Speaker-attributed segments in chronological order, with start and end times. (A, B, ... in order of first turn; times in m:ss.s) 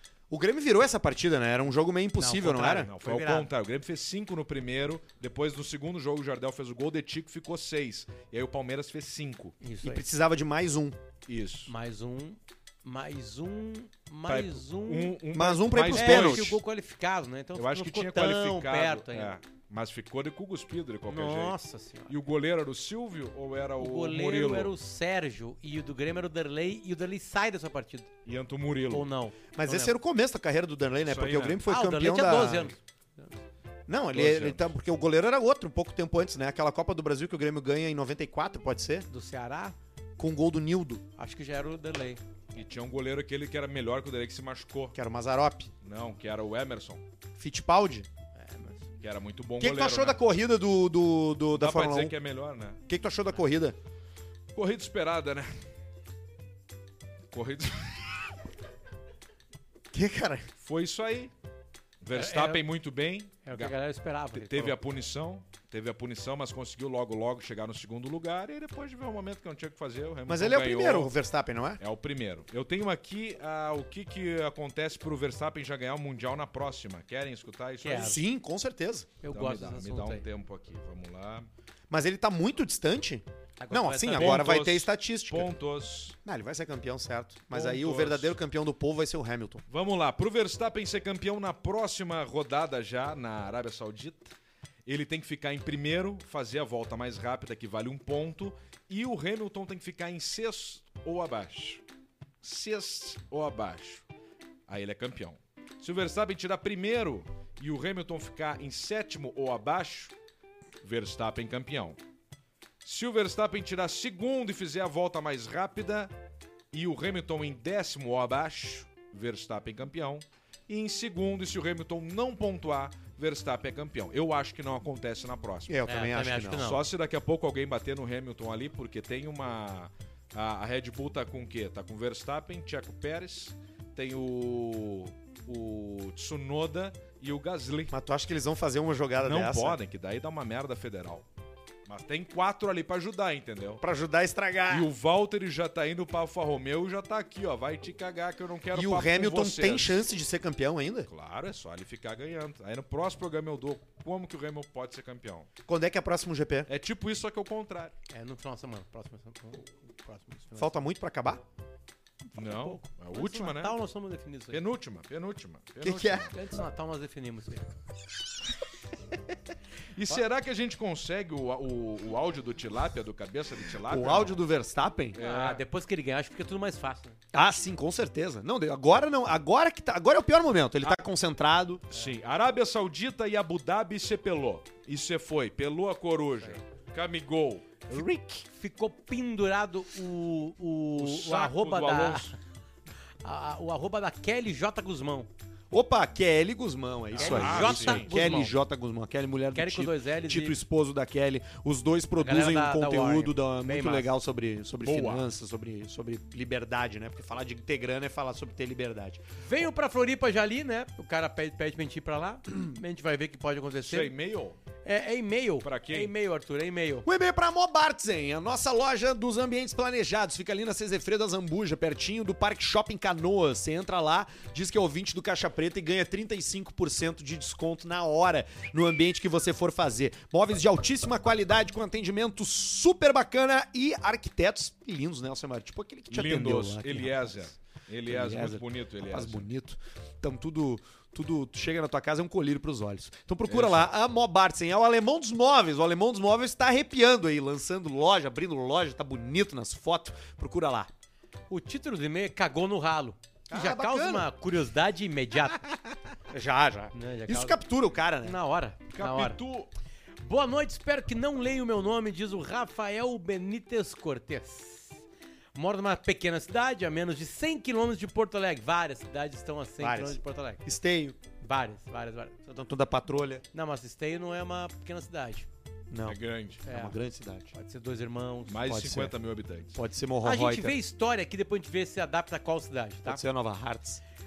0:00.3-0:02.9 A
0:02.2-0:03.5 B
0:02.7-0:09.6 C
0:09.6-0:10.0 B
0:09.8-0:11.0 A
0:11.3-0:11.7 C
0:11.7-0:15.2 B
0:14.3-0:16.6 C
0:15.3-0:16.6 A
0:15.9-0:19.4 B
0:17.6-0:21.6 C
0:21.1-0:22.2 B
0:22.1-0:24.7 C
0:23.8-0:28.1 B
0:28.2-0:29.1 C
0:28.9-0:30.0 B
0:29.5-0:32.7 A
0:31.1-0:31.6 C
0:31.7-0:33.4 B
0:33.9-0:39.1 A
0:34.1-0:34.7 C
0:39.1-0:39.8 B
0:40.2-0:41.0 A
0:41.2-0:42.2 B
0:42.5-0:45.0 C
0:44.9-0:45.7 A
0:45.8-0:47.0 C
0:47.4-0:48.1 A
0:48.4-0:48.9 B
0:49.0-0:50.2 C
0:49.6-0:52.2 A
0:51.5-0:52.8 C
0:52.9-0:53.8 A
0:54.5-0:55.5 C
0:57.3-0:58.3 C
0:59.9-1:00.5 A
1:00.6-1:01.3 C
1:02.0-1:03.7 C
1:02.1-1:02.6 B
1:03.4-1:04.8 B
1:04.3-1:11.1 C
1:10.3-1:11.8 A
1:11.8-1:18.2 C
1:17.8-1:18.2 B
1:18.0-1:19.1 A
1:19.2-1:20.3 B
1:19.3-1:21.5 C
1:21.9-1:25.5 A
1:23.6-1:24.5 B
1:24.1-1:26.2 C
1:26.2-1:29.6 A
1:27.5-1:28.4 C
1:29.7-1:34.3 C
1:34.9-1:41.8 C
1:42.4-1:44.0 C
1:44.7-1:50.1 C
1:50.8-1:52.0 C
1:52.8-1:56.1 C
1:56.7-2:05.8 C
2:05.7-2:06.7 A
2:05.9-2:06.8 B
2:06.6-2:17.9 C
2:17.9-2:19.8 A
2:19.2-2:21.3 C
2:21.9-2:23.8 C
2:23.8-2:24.9 A
2:24.7-2:30.0 C
2:28.7-2:31.1 A
2:31.1-2:35.5 C
2:35.7-2:36.7 A
2:36.7-2:37.9 C
2:38.1-2:40.8 B
2:40.6-2:41.4 A
2:42.3-2:44.6 B
2:42.4-2:43.8 C
2:44.5-2:46.4 C
2:45.8-2:46.3 A
2:46.3-2:47.7 B
2:49.9-2:54.4 C
2:53.8-2:55.2 A
2:55.2-2:55.6 C
2:55.2-2:57.2 B
2:57.3-3:01.8 A
3:01.9-3:08.4 C
3:08.5-3:12.4 B
3:11.0-3:12.3 C
3:13.2-3:15.3 B
3:15.7-3:29.2 A
3:17.2-3:18.1 C
3:17.2-3:18.5 B
3:19.5-3:20.6 B
3:22.2-3:24.1 B
3:24.8-3:25.3 C
3:29.4-3:34.1 B
3:33.8-3:34.6 C
3:34.8-3:37.1 B
3:35.6-3:36.1 C
3:37.0-3:57.5 A
3:56.1-3:59.5 C
3:58.1-4:10.9 A
4:03.5-4:03.9 C
4:11.5-4:15.6 B
4:13.5-4:14.3 A
4:16.3-4:18.4 A
4:16.9-4:17.6 B
4:18.2-4:19.4 B
4:18.9-4:19.7 C
4:20.2-4:25.0 B
4:25.6-4:30.6 B
4:29.8-4:31.2 A
4:31.4-4:32.4 B
4:32.5-4:33.4 A
4:33.5-4:35.5 B
4:35.9-4:37.5 A
4:36.0-4:36.6 C
4:36.6-4:37.0 B
4:37.5-4:38.6 B
4:38.5-4:39.8 C
4:38.6-4:39.1 A
4:39.7-4:40.8 A
4:40.2-4:43.2 B
4:43.0-4:44.0 A